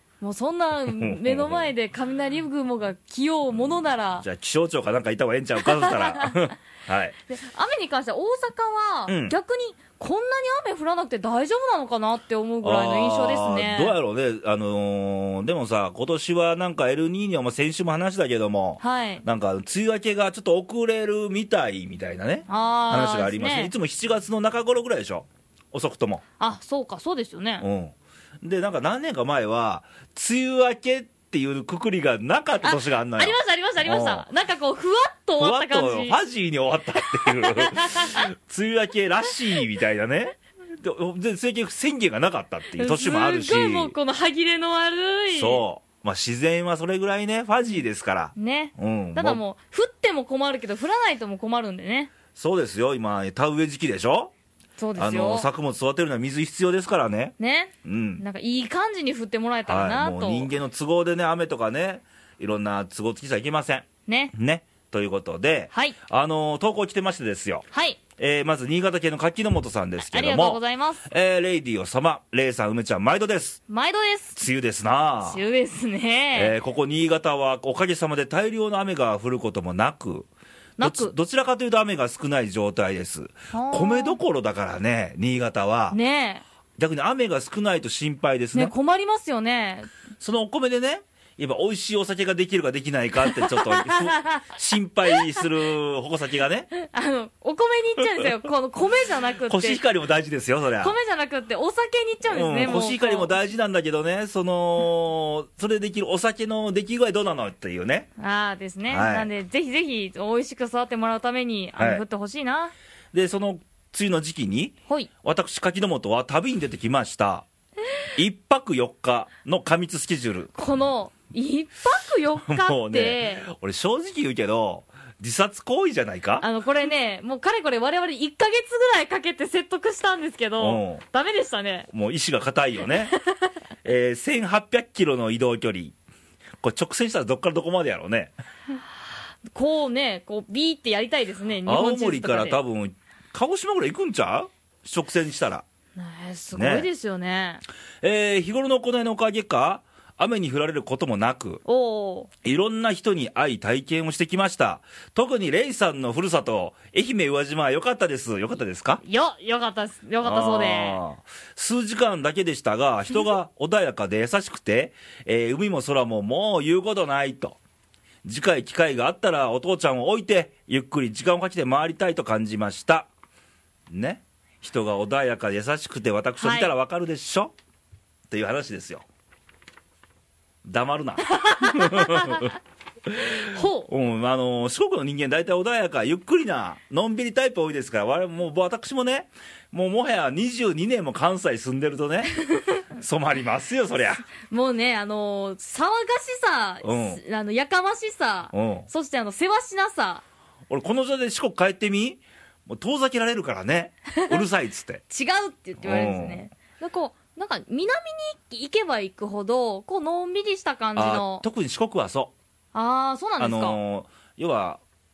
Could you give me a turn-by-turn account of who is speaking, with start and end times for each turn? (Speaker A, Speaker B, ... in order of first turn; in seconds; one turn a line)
Speaker A: 0.2-4.2
Speaker B: 0.9-1.7
Speaker B: 4.2-7.2
Speaker A: 5.6-6.5
Speaker A: 7.3-14.0
Speaker B: 9.1-9.4
Speaker B: 12.6-26.2
Speaker A: 18.8-19.2
Speaker A: 22.5-23.7
Speaker A: 26.4-27.7
Speaker B: 27.6-34.3
Speaker A: 32.6-36.2
Speaker B: 35.4-44.0
Speaker A: 37.2-38.2
Speaker A: 42.8-45.6
Speaker B: 45.3-49.4
Speaker A: 48.4-52.1
Speaker B: 52.4-54.3
Speaker A: 54.8-55.5
Speaker B: 55.0-58.2
Speaker A: 57.4-60.5
Speaker B: 59.7-67.7
Speaker A: 64.1-64.3
Speaker A: 65.7-66.0
Speaker A: 67.7-68.0
Speaker B: 68.2-73.6
Speaker A: 70.0-71.1
Speaker A: 73.7-74.4
Speaker B: 74.4-75.4
Speaker A: 75.2-76.6
Speaker B: 76.3-80.3
Speaker A: 80.8-81.2
Speaker B: 80.8-86.0
Speaker A: 83.5-84.2
Speaker A: 85.9-86.4
Speaker B: 86.8-88.7
Speaker A: 88.5-89.9
Speaker B: 90.2-96.7
Speaker A: 93.3-94.5
Speaker A: 96.7-99.8
Speaker B: 99.5-101.0
Speaker A: 100.8-103.3
Speaker B: 102.3-108.1
Speaker A: 108.2-112.7
Speaker B: 108.9-109.3
Speaker B: 111.8-112.0
Speaker B: 113.1-117.5
Speaker B: 118.2-120.5
Speaker A: 120.5-123.5
Speaker B: 122.5-126.5
Speaker A: 126.4-131.9
Speaker B: 130.6-131.0
Speaker B: 131.9-133.1
Speaker A: 133.1-133.6
Speaker B: 133.8-135.9
Speaker B: 136.6-138.3
Speaker A: 139.5-142.6
Speaker B: 141.7-145.7
Speaker A: 146.0-147.6
Speaker B: 146.5-146.9
Speaker B: 148.0-151.6
Speaker A: 151.7-152.3
Speaker B: 152.4-159.0
Speaker A: 159.0-161.0
Speaker B: 160.2-167.6
Speaker B: 168.2-173.1
Speaker B: 173.9-177.5
Speaker A: 176.4-176.7
Speaker B: 178.3-179.1
Speaker B: 180.6-182.5
Speaker A: 181.3-182.5
Speaker B: 183.1-192.3
Speaker A: 183.5-183.9
Speaker B: 192.9-194.3
Speaker A: 194.5-200.2
Speaker B: 196.8-197.2
Speaker B: 198.5-198.9
Speaker B: 200.7-205.0
Speaker A: 204.1-204.4
Speaker A: 205.1-211.4
Speaker B: 205.8-206.5
Speaker B: 211.0-212.3
Speaker A: 212.7-213.8
Speaker B: 213.4-214.8